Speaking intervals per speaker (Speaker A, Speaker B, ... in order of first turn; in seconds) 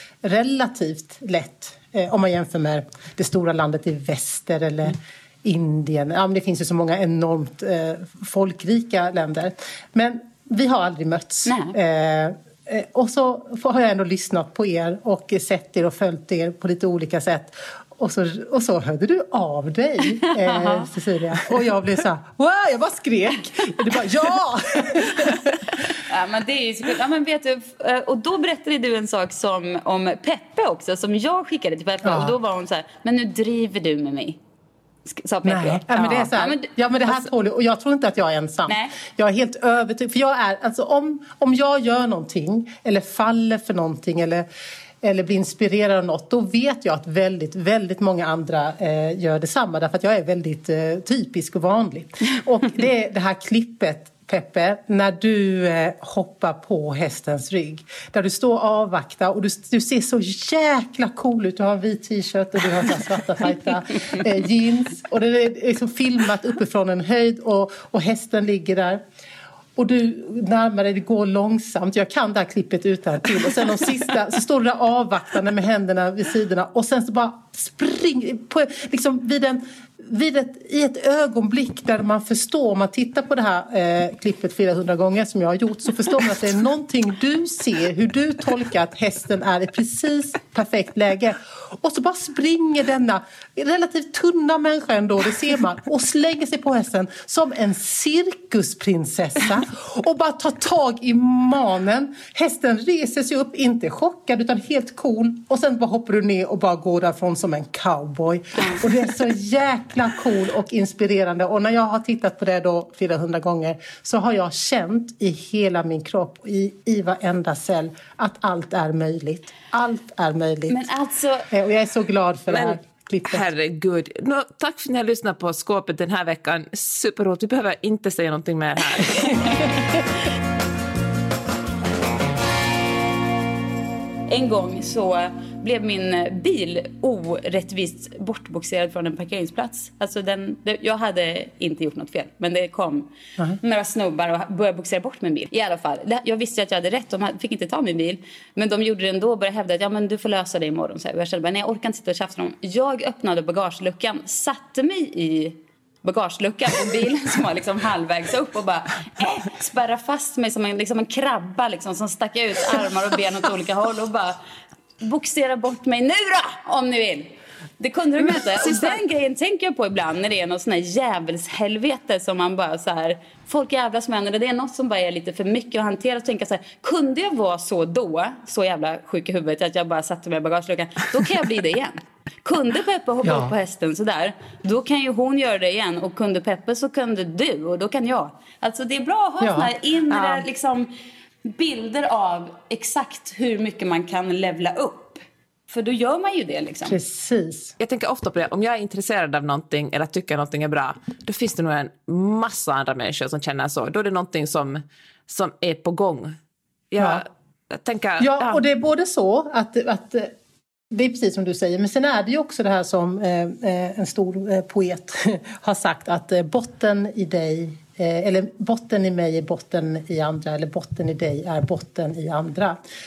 Speaker A: 0.2-25.4, 32.0-32.4, 35.5-44.5, 45.0-69.0, 69.8-120.9, 121.5-123.4, 183.2-183.5, 189.4-189.7, 196.8-197.8, 207.0-207.2, 208.2-210.3, 210.9-222.8
Speaker B: 11.5-11.8, 20.3-20.9, 25.9-34.4, 35.1-37.3, 38.7-39.0, 120.7-121.5, 134.3-164.4, 165.0-190.9, 191.4-197.0
Speaker C: 122.5-129.7, 190.1-190.4, 197.8-206.4, 206.9-208.6